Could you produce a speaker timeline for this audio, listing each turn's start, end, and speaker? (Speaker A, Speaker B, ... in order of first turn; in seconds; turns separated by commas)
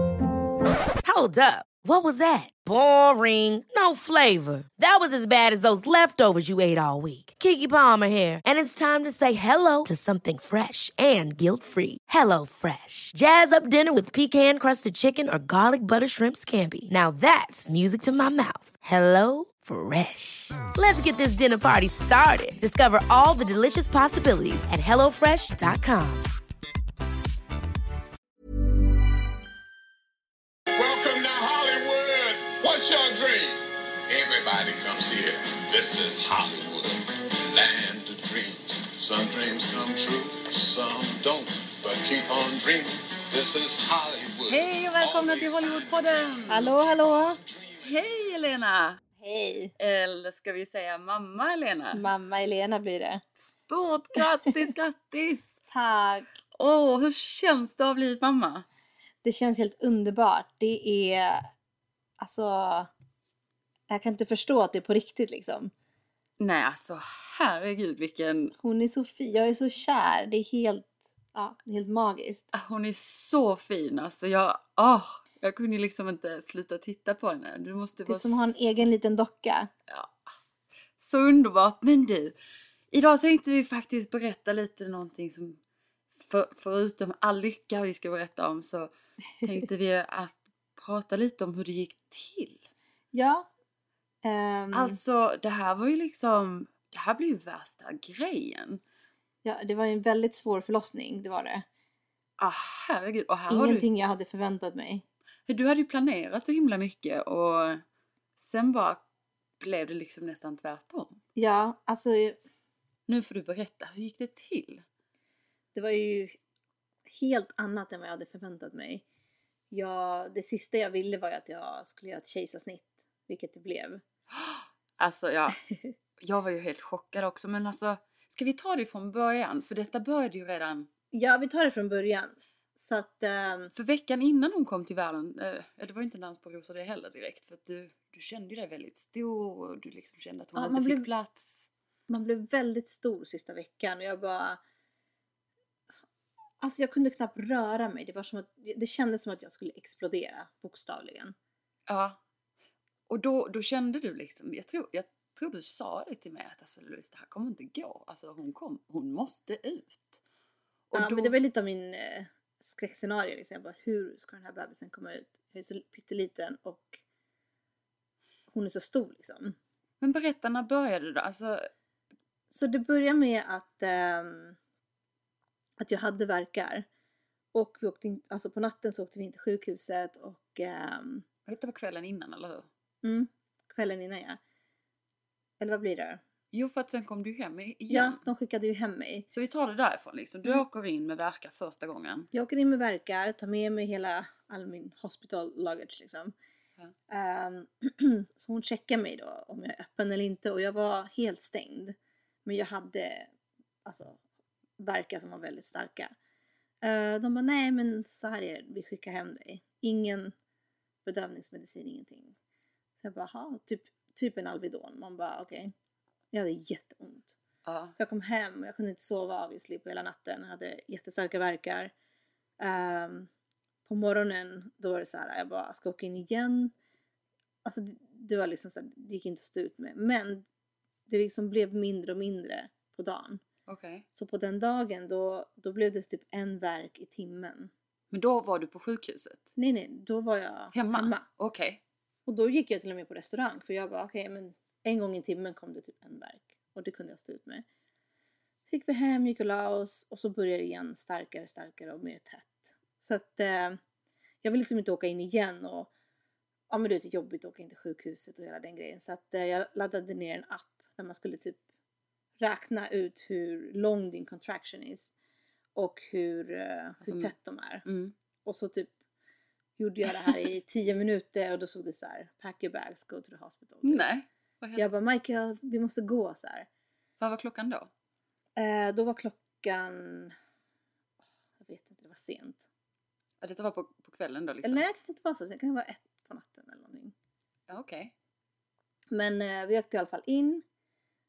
Speaker A: 1.0-26.3, Speaker B: 30.7-46.3, Speaker C: 44.5-46.7, Speaker D: 46.5-47.4, Speaker B: 47.6-47.8, Speaker C: 47.8-49.0, Speaker D: 49.2-49.7, Speaker C: 49.8-52.0, Speaker D: 51.9-53.2, Speaker C: 53.5-55.6, Speaker D: 54.2-54.7, Speaker D: 55.7-56.3, Speaker C: 56.6-58.6, Speaker D: 59.2-61.4, Speaker D: 62.2-62.9, Speaker D: 63.9-65.7, Speaker C: 66.4-68.5, Speaker D: 68.6-72.5, Speaker C: 72.5-78.7, Speaker D: 78.0-79.7, Speaker C: 79.9-80.1, Speaker C: 81.0-82.3, Speaker C: 82.9-85.6, Speaker C: 86.1-92.6, Speaker D: 93.1-93.5, Speaker D: 94.2-95.0, Speaker C: 94.7-98.8, Speaker D: 99.4-101.6, Speaker C: 102.4-103.9, Speaker D: 103.5-105.0, Speaker C: 105.5-107.8, Speaker C: 108.4-109.0, Speaker C: 109.6-111.2, Speaker D: 111.3-112.4, Speaker C: 113.1-114.8, Speaker D: 115.7-116.3, Speaker D: 117.1-119.0, Speaker D: 119.7-124.0, Speaker C: 124.3-125.6, Speaker C: 126.2-130.9, Speaker D: 131.1-133.7, Speaker C: 133.7-141.7, Speaker D: 140.6-141.1, Speaker D: 142.1-144.6, Speaker D: 146.6-151.3, Speaker C: 151.9-152.2, Speaker C: 153.1-160.2, Speaker C: 160.9-161.3, Speaker D: 160.9-167.0, Speaker D: 168.5-169.6, Speaker C: 170.0-171.7, Speaker D: 172.5-174.6, Speaker D: 175.8-176.8, Speaker D: 177.5-181.2, Speaker C: 181.5-182.7, Speaker D: 183.0-184.4, Speaker D: 185.6-186.2, Speaker C: 186.5-188.2, Speaker D: 187.9-189.3, Speaker C: 189.3-192.3, Speaker D: 192.3-196.3, Speaker D: 197.1-203.3, Speaker D: 203.8-204.2, Speaker D: 204.8-206.1, Speaker D: 206.8-210.3, Speaker D: 211.0-212.3, Speaker D: 213.0-215.7, Speaker D: 216.3-217.3, Speaker C: 217.6-217.9, Speaker D: 217.9-221.9, Speaker D: 222.6-223.3, Speaker D: 223.8-226.7, Speaker D: 227.6-230.4, Speaker D: 231.1-233.4, Speaker C: 233.7-234.0, Speaker D: 234.1-237.7, Speaker C: 238.1-239.5, Speaker D: 239.6-241.2, Speaker C: 240.7-241.8, Speaker D: 242.2-247.6, Speaker D: 248.7-253.8, Speaker D: 254.4-255.9, Speaker D: 256.7-261.6, Speaker D: 262.4-265.1, Speaker D: 265.7-267.8, Speaker C: 267.0-267.3, Speaker C: 267.8-268.1, Speaker D: 268.4-268.9, Speaker D: 269.8-274.1, Speaker C: 273.8-274.9, Speaker D: 274.8-276.7, Speaker C: 277.2-277.9, Speaker D: 278.6-280.3, Speaker D: 281.6-282.6, Speaker C: 283.4-284.8, Speaker D: 284.6-287.1, Speaker C: 287.7-288.1, Speaker D: 289.1-290.6